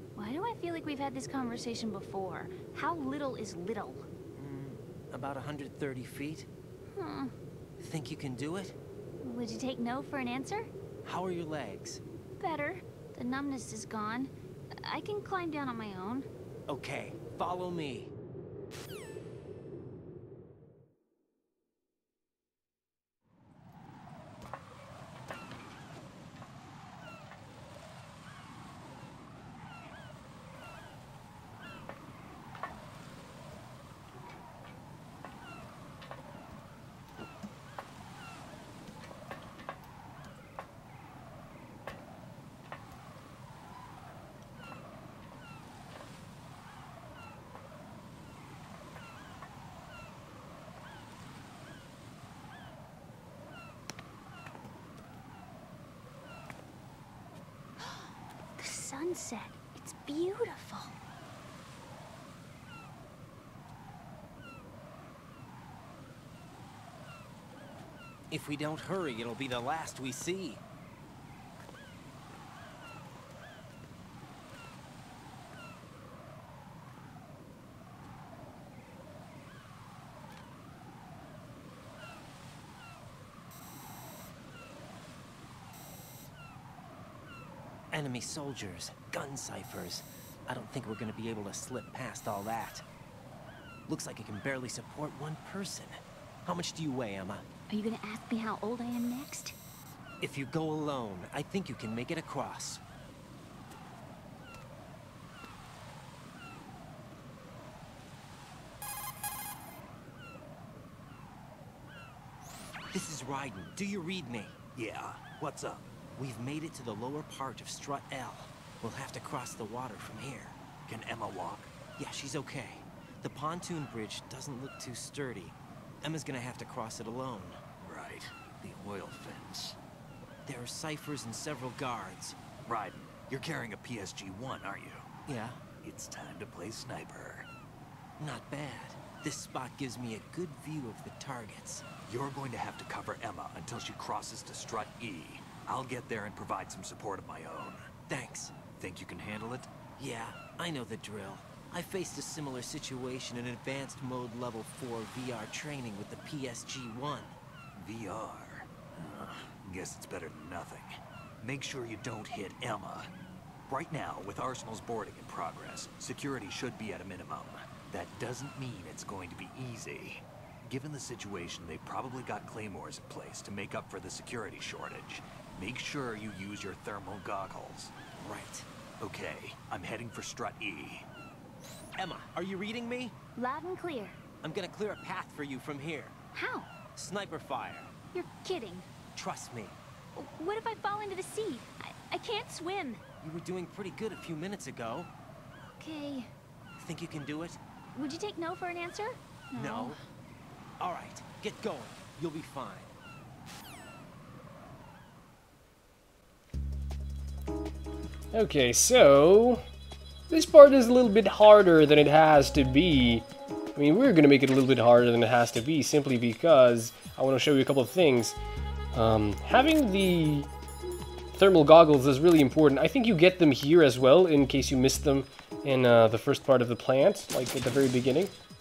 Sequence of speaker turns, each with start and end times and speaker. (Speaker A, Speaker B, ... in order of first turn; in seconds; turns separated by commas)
Speaker A: 0.2-4.0, Speaker B: 4.4-6.5, Speaker A: 6.9-7.3, Speaker B: 7.8-8.8, Speaker A: 9.2-10.7, Speaker B: 11.1-12.0, Speaker A: 12.4-16.3, Speaker B: 16.7-18.1, Speaker A: 58.6-61.0, Speaker B: 68.3-70.6, Speaker B: 87.9-92.8, Speaker B: 93.9-97.5, Speaker A: 97.7-99.6, Speaker B: 100.2-102.8, Speaker B: 112.9-114.6, Speaker C: 114.8-115.9, Speaker B: 116.2-120.6, Speaker C: 120.9-121.7, Speaker B: 122.0-127.6, Speaker C: 127.8-129.8, Speaker B: 130.5-132.4, Speaker C: 132.7-135.1, Speaker B: 135.3-135.6, Speaker C: 135.8-137.5, Speaker B: 138.2-141.9, Speaker C: 142.0-147.8, Speaker B: 148.1-148.6, Speaker C: 148.8-149.7, Speaker B: 150.0-157.3, Speaker C: 157.8-163.1, Speaker C: 163.7-178.0, Speaker B: 178.2-178.7, Speaker C: 179.0-181.1, Speaker B: 182.0-183.2, Speaker A: 183.4-184.2, Speaker B: 184.4-186.2, Speaker A: 186.3-186.8, Speaker B: 186.9-188.0, Speaker A: 188.1-188.9, Speaker B: 189.1-189.8, Speaker A: 190.2-193.0, Speaker B: 193.2-195.1, Speaker A: 195.7-196.3, Speaker B: 196.8-197.6, Speaker A: 197.9-200.0, Speaker B: 199.5-200.0, Speaker B: 200.8-202.9, Speaker D: 208.3-209.6, Speaker D: 210.3-218.4, Speaker D: 218.9-220.5, Speaker D: 221.3-228.3